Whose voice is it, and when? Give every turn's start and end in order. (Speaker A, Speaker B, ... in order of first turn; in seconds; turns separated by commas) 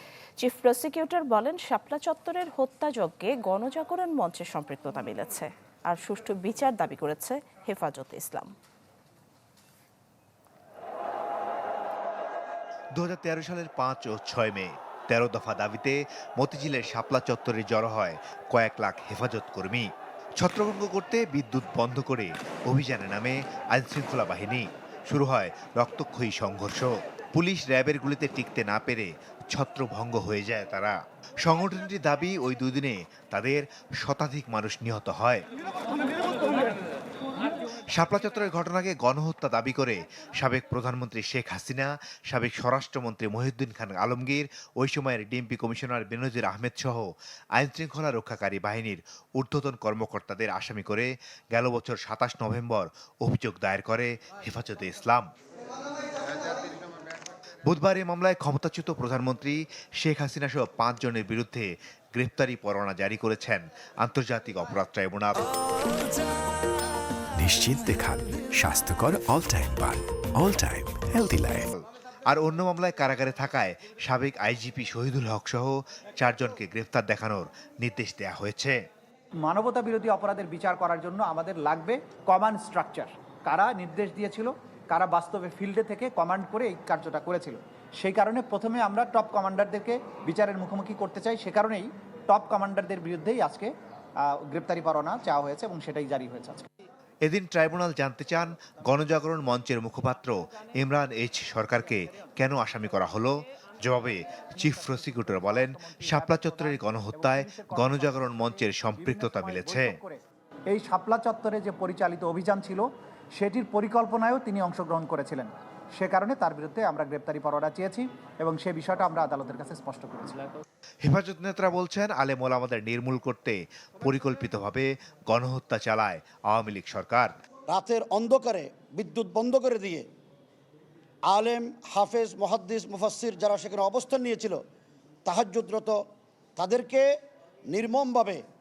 Speaker A: 0.4-8.5, Speaker B: 13.0-19.9, Speaker B: 20.4-35.5, Speaker B: 37.9-55.3, Speaker B: 57.7-65.5, Speaker C: 67.4-71.7, Speaker B: 71.7-78.8, Speaker D: 79.4-96.7, Speaker B: 97.2-110.0, Speaker D: 104.6-112.9, Speaker D: 113.4-120.5, Speaker B: 121.0-127.3, Speaker E: 127.7-130.1, Speaker E: 131.3-134.6, Speaker E: 135.3-136.0, Speaker E: 136.6-137.1, Speaker E: 137.7-138.4